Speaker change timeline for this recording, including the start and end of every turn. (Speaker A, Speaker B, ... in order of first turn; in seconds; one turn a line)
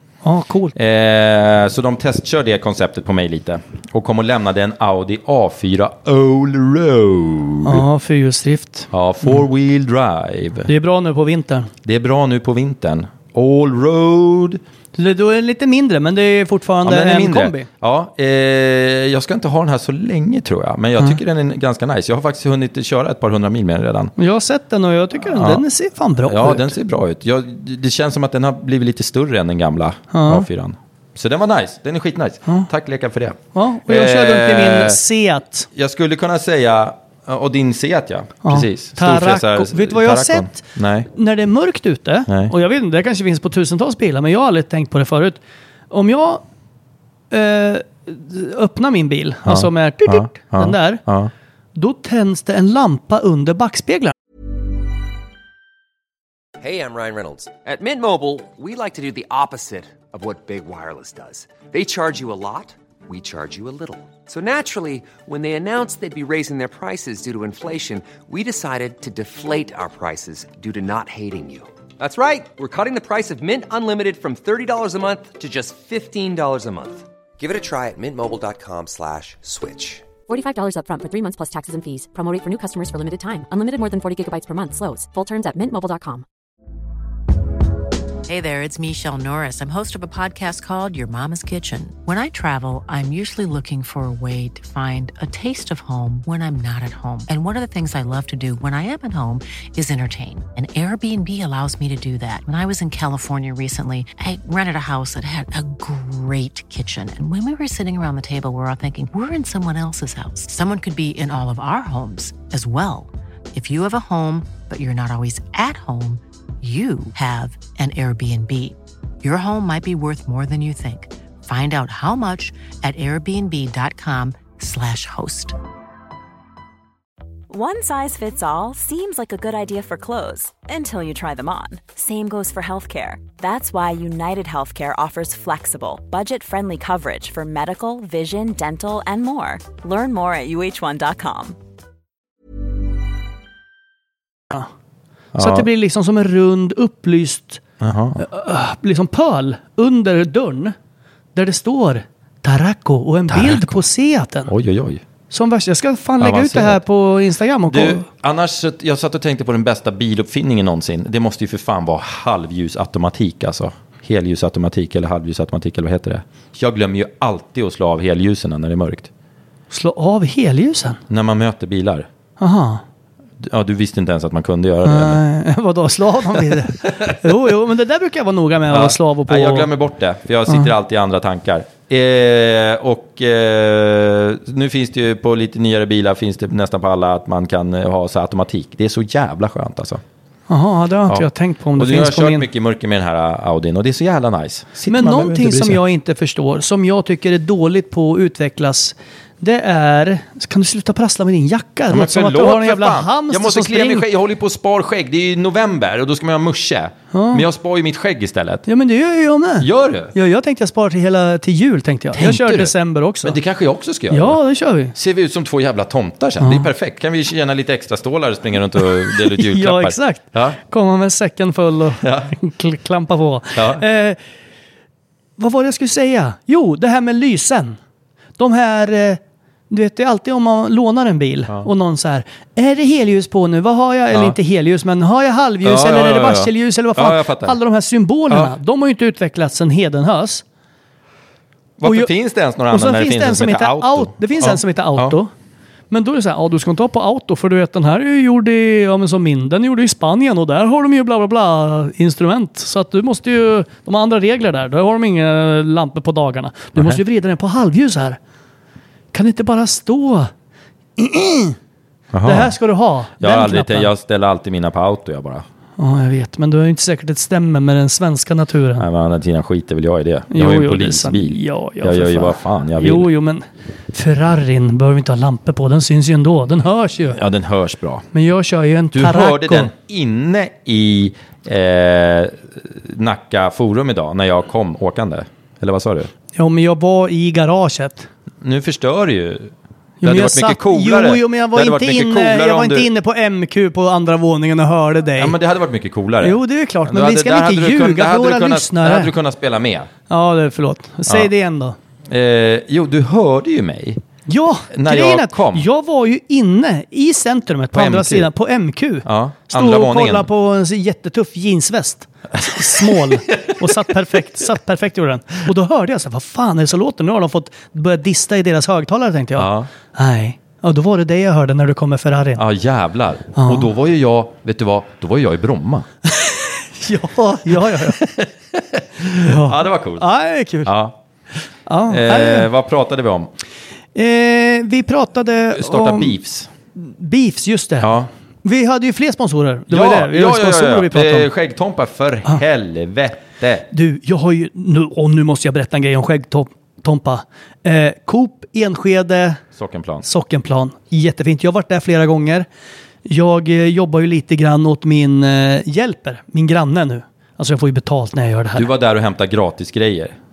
Speaker A: 0.2-0.7
Speaker B: 0.8-7.8
Speaker A: 7.6-9.4
Speaker B: 8.9-10.7
Speaker A: 10.7-11.7
Speaker B: 11.8-14.6
Speaker A: 14.9-17.7
Speaker B: 16.8-24.1
Speaker A: 24.2-26.7
Speaker B: 25.3-25.6
Speaker B: 26.2-35.0
Speaker A: 30.1-30.4
Speaker A: 33.5-35.7
Speaker B: 35.7-41.1
Speaker A: 38.4-46.4
Speaker B: 42.3-42.5
Speaker A: 47.3-51.0
Speaker B: 49.5-51.3
Speaker A: 51.8-54.1
Speaker C: 56.6-80.0
Speaker D: 80.3-86.2
Speaker E: 88.3-125.6
Speaker F: 127.5-141.6
Speaker B: 145.3-145.7
Speaker A: 145.4-147.6
Speaker B: 147.8-148.2
Speaker A: 148.2-150.7
Speaker A: 151.3-154.5
Speaker B: 153.3-153.8
Speaker B: 154.5-155.0
Speaker A: 155.3-158.0
Speaker B: 156.2-156.8
Speaker B: 157.7-169.1
Speaker A: 169.7-171.0
Speaker B: 171.1-172.1
Speaker A: 172.4-172.8
Speaker B: 173.4-175.2
Speaker A: 174.8-179.7
Speaker B: 178.7-190.0
Speaker A: 190.5-192.4
Speaker B: 191.1-195.8
Speaker A: 194.9-204.1
Speaker B: 201.9-208.7
Speaker A: 207.1-207.4
Speaker A: 208.7-213.4
Speaker B: 209.6-210.1
Speaker B: 212.1-214.4
Speaker A: 214.1-214.9
Speaker B: 214.9-220.6
Speaker A: 216.4-216.7
Speaker A: 219.1-224.2
Speaker B: 222.0-222.3
Speaker B: 223.6-223.8
Speaker A: 225.4-227.8
Speaker A: 228.4-240.4
Speaker B: 235.6-237.6
Speaker B: 241.8-245.2
Speaker A: 241.8-242.1
Speaker A: 242.7-245.3
Speaker A: 245.9-258.2
Speaker A: 259.1-260.3
Speaker A: 261.0-261.6
Speaker B: 262.1-262.5
Speaker A: 262.2-263.9
Speaker B: 263.2-265.4
Speaker A: 265.8-268.9
Speaker B: 268.8-273.1
Speaker A: 270.3-277.2
Speaker B: 277.1-278.1
Speaker A: 278.1-279.7
Speaker B: 278.9-286.1
Speaker A: 286.3-288.1
Speaker B: 288.4-292.9
Speaker A: 290.0-295.4
Speaker B: 295.2-299.9
Speaker A: 296.2-299.1
Speaker A: 300.1-301.8
Speaker B: 302.1-304.0
Speaker A: 304.3-322.4
Speaker B: 304.7-305.6
Speaker B: 307.7-308.3
Speaker B: 309.0-310.3
Speaker B: 312.4-313.5
Speaker B: 319.4-319.7
Speaker B: 322.4-325.9
Speaker A: 323.3-323.7
Speaker A: 326.1-328.0
Speaker B: 327.7-330.0
Speaker A: 329.2-330.7
Speaker B: 330.6-330.9
Speaker A: 331.7-332.5
Speaker B: 331.9-333.3
Speaker A: 333.9-336.1
Speaker B: 335.5-336.5
Speaker A: 336.8-337.9
Speaker B: 337.8-338.1
Speaker A: 338.4-341.3
Speaker B: 339.7-343.7
Speaker A: 343.7-349.4
Speaker B: 349.6-350.0
Speaker A: 350.0-352.5
Speaker A: 353.0-358.7
Speaker B: 358.5-360.1